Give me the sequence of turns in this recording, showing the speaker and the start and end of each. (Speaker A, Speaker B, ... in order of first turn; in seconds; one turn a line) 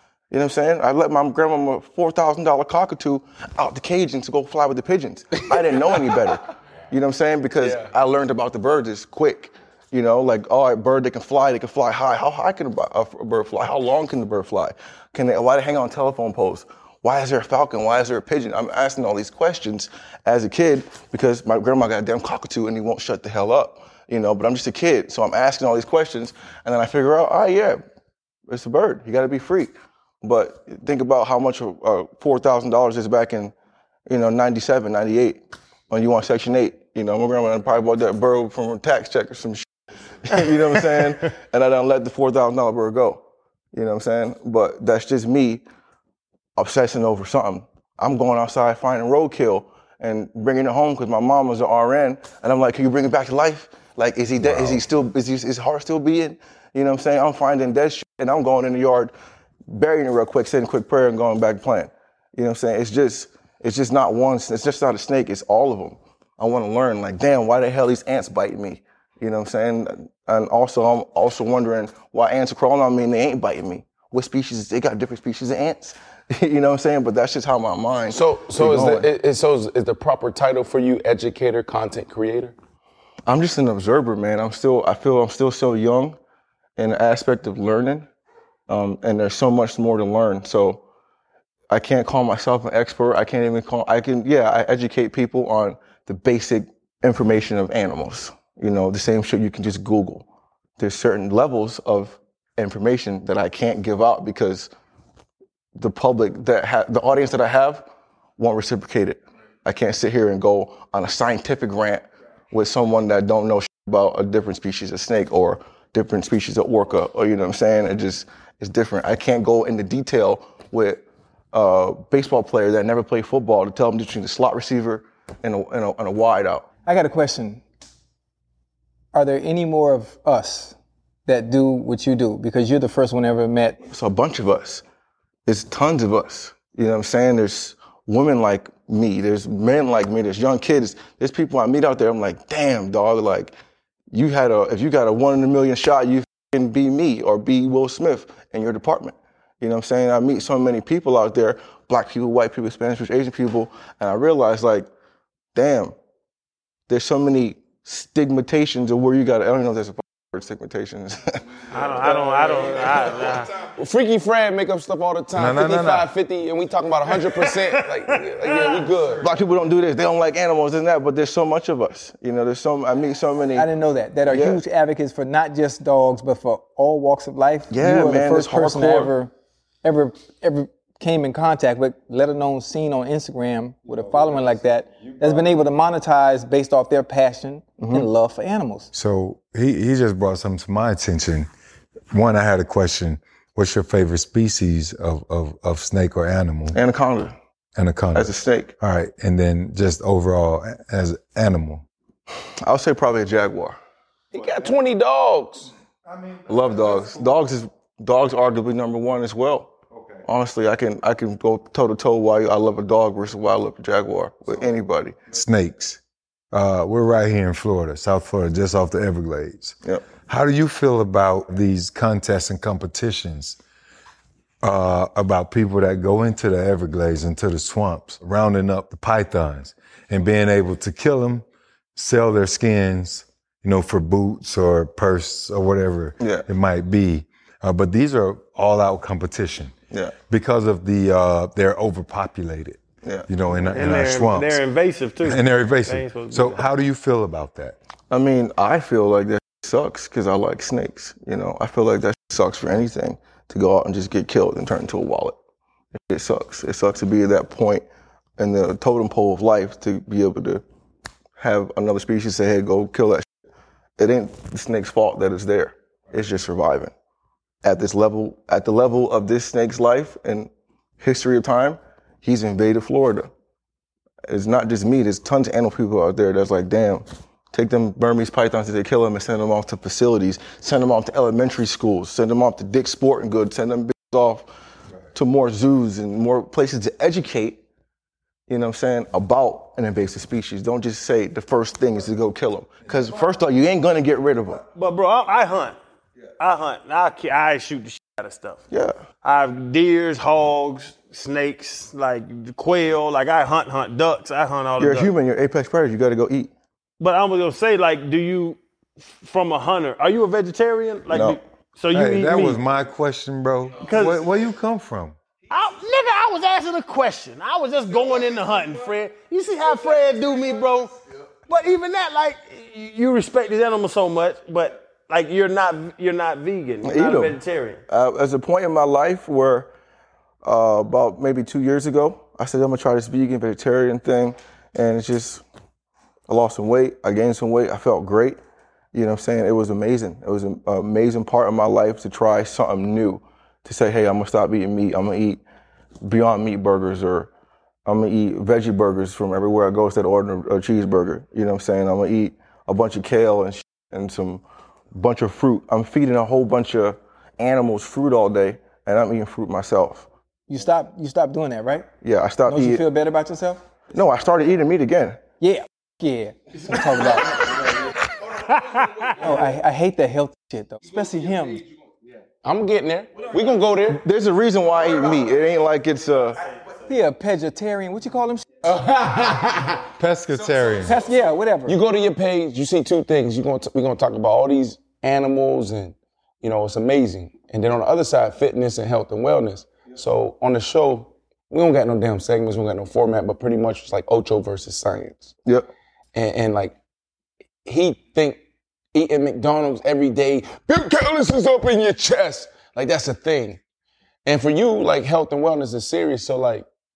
Speaker A: 0.3-27.8
Speaker B: 7.6-7.9
Speaker A: 28.5-33.5
Speaker A: 34.1-39.7
Speaker A: 40.2-43.2
Speaker A: 43.7-45.6
Speaker A: 46.6-59.1
Speaker C: 54.4-54.8
Speaker A: 59.7-79.1
Speaker B: 78.1-82.5
Speaker A: 83.3-86.2
Speaker A: 86.8-88.1
Speaker A: 88.7-90.8
Speaker A: 91.7-100.3
Speaker A: 100.8-104.7
Speaker A: 105.8-107.9
Speaker A: 108.4-126.7
Speaker D: 126.9-127.6
Speaker D: 129.1-133.8
Speaker A: 133.9-134.8
Speaker A: 135.5-143.5
Speaker A: 144.1-154.9
Speaker A: 155.6-155.9
Speaker A: 156.9-162.8
Speaker E: 161.7-163.5
Speaker B: 162.8-169.3
Speaker C: 165.3-166.1
Speaker E: 167.3-168.8
Speaker A: 169.2-173.7
Speaker D: 173.6-179.3
Speaker A: 174.3-174.6
Speaker A: 177.7-179.1
Speaker D: 179.8-188.9
Speaker A: 187.8-188.1
Speaker C: 188.9-191.5
Speaker C: 192.1-196.8
Speaker A: 196.7-197.3
Speaker C: 197.8-201.8
Speaker A: 198.1-198.7
Speaker A: 202.6-203.8
Speaker B: 204.3-205.7
Speaker A: 206.5-209.7
Speaker A: 210.2-215.2
Speaker C: 215.3-216.0
Speaker C: 216.5-223.6
Speaker C: 224.6-239.8
Speaker A: 236.2-236.5
Speaker C: 240.3-244.6
Speaker E: 243.7-246.6
Speaker C: 245.2-247.8
Speaker A: 248.1-255.4
Speaker A: 255.9-257.9
Speaker A: 258.4-260.6
Speaker A: 261.4-263.3
Speaker A: 264.0-266.9
Speaker A: 267.6-273.3
Speaker A: 274.3-284.5
Speaker A: 285.1-287.6
Speaker A: 288.5-294.6
Speaker E: 294.8-295.8
Speaker E: 296.4-298.6
Speaker A: 298.7-299.0
Speaker E: 299.2-305.1
Speaker A: 304.8-306.5
Speaker E: 307.0-312.6
Speaker A: 311.1-311.4
Speaker C: 311.9-315.2
Speaker E: 313.8-314.3
Speaker E: 315.5-320.9
Speaker E: 321.5-327.8
Speaker A: 326.8-327.4
Speaker A: 327.9-329.7
Speaker A: 330.4-335.4
Speaker A: 336.3-338.4
Speaker A: 338.9-345.4
Speaker A: 346.0-347.3
Speaker A: 347.9-360.1
Speaker D: 360.5-361.9
Speaker A: 362.0-362.9
Speaker D: 362.5-363.6
Speaker A: 363.9-365.2
Speaker D: 365.4-367.6
Speaker E: 368.2-369.3
Speaker D: 369.1-371.6
Speaker B: 372.4-374.0
Speaker A: 373.9-376.4
Speaker D: 376.9-378.5
Speaker B: 378.6-379.8
Speaker C: 379.9-381.0
Speaker D: 380.8-381.8
Speaker B: 381.7-395.3
Speaker B: 396.1-396.8
Speaker B: 397.6-398.4
Speaker B: 398.9-403.6
Speaker B: 404.2-406.7